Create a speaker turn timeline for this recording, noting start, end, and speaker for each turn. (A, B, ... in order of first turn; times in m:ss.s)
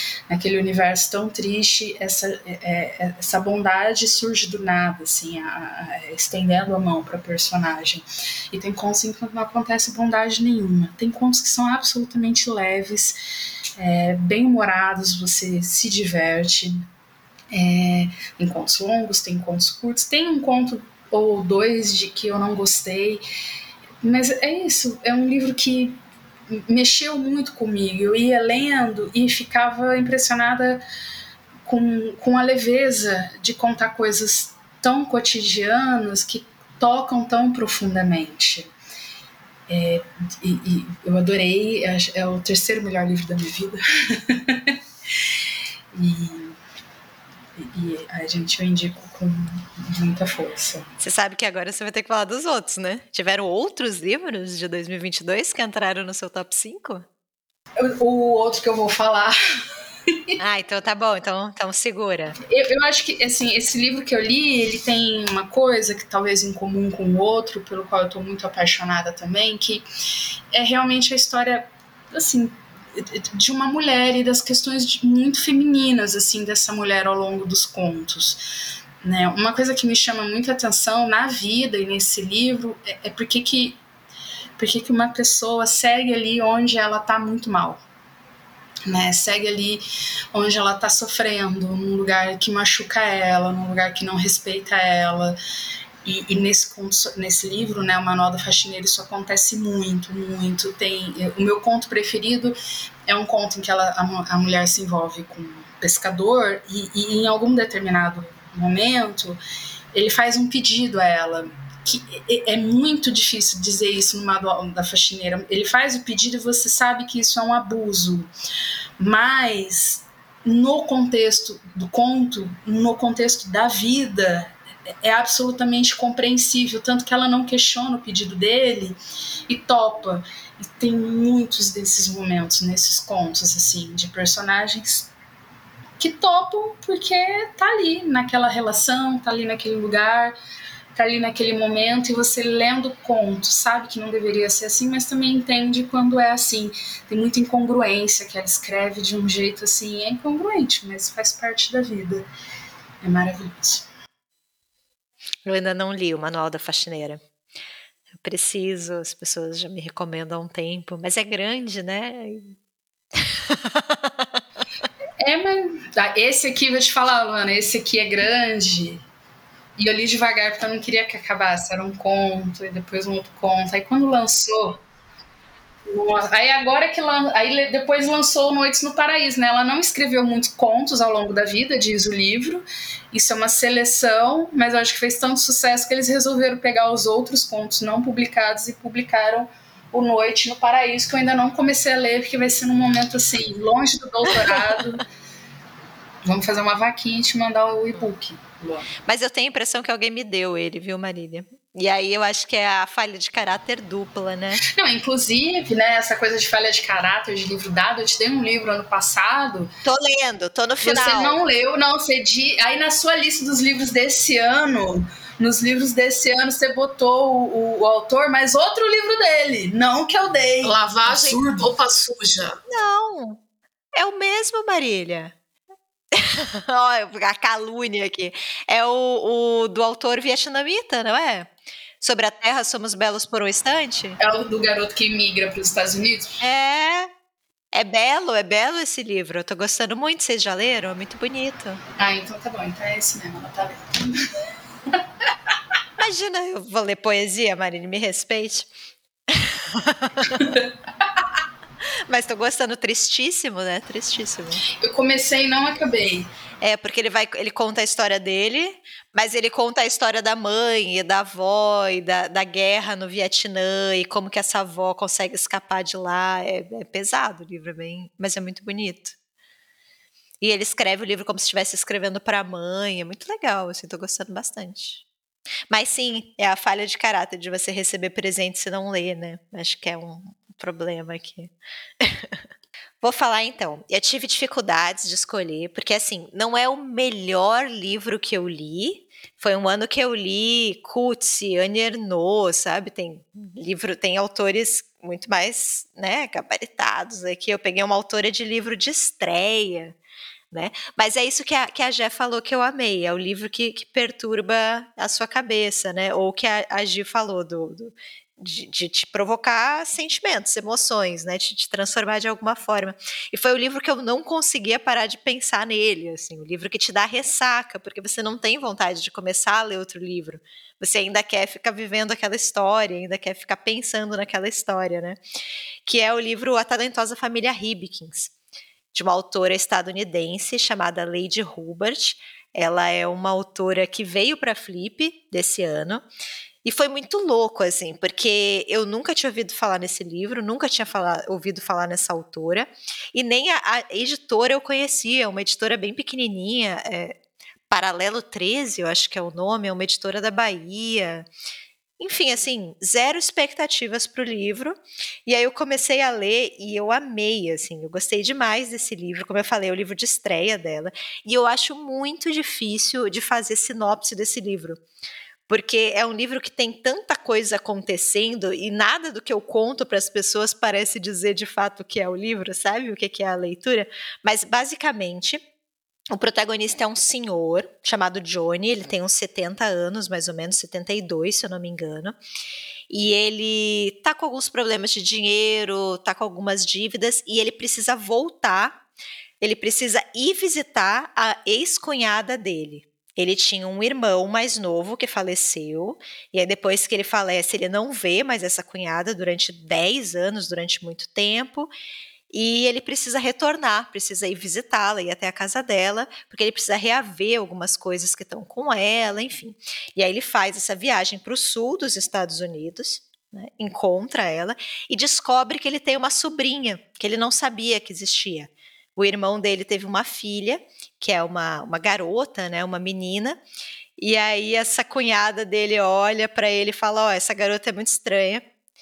0:00.3-0:13.2 A
0:13.8-0:16.8 A
0:17.5-0:23.2 A
0:24.0-0:26.0 A
0:26.5-0:30.8 A
0:31.6-0:38.7 A
0:39.7-0:44.8 A
0:45.9-0:46.6 A
0:47.6-0:50.8 A
0:51.0-0:57.1 B
0:57.8-0:59.3 A
1:00.4-1:02.4 B
1:02.5-1:09.8 A
1:10.5-1:18.4 A
1:19.0-1:23.8 A
1:24.6-1:27.8 A
1:28.9-1:35.4 A
1:36.0-1:42.5 A
1:43.1-1:49.4 A
1:49.9-1:58.3 A
1:59.0-2:04.5 A
2:05.0-2:15.1 A
2:16.0-2:20.3 A
2:20.9-2:32.2 A
2:33.0-2:33.8 A
2:35.4-2:37.2 B
2:38.2-2:42.5 B
2:43.2-2:44.3 B
2:45.2-2:49.0 A
2:49.8-2:54.8 A
2:55.9-3:15.0 A
3:16.2-3:18.9 A
3:19.0-3:24.6 B
3:24.8-3:29.7 A
3:29.8-3:31.4 B
3:30.8-3:41.7 A
3:40.6-3:42.6 C
3:42.7-3:43.4 B
3:43.9-3:45.3 B
3:46.1-3:51.5 B
3:52.0-3:54.2 B
3:54.2-3:56.4 A
3:56.4-3:57.1 B
3:57.7-4:01.8 B
4:02.0-4:04.1 A
4:06.0-4:08.7 B
4:09.3-4:10.4 B
4:12.1-4:14.6 B
4:14.8-4:16.3 A
4:16.6-4:29.2 B
4:30.4-4:35.0 B
4:35.7-4:42.4 B
4:43.0-4:59.9 B
5:00.5-5:25.2 B
5:25.9-5:28.3 B
5:28.9-5:36.1 B
5:36.6-5:47.1 B
5:47.7-5:51.3 B
5:52.0-6:04.8 B
6:05.5-6:15.4 B
6:16.1-6:22.2 B
6:22.9-6:28.8 B
6:29.4-6:41.7 B
6:42.3-7:03.4 B
7:04.0-7:08.4 B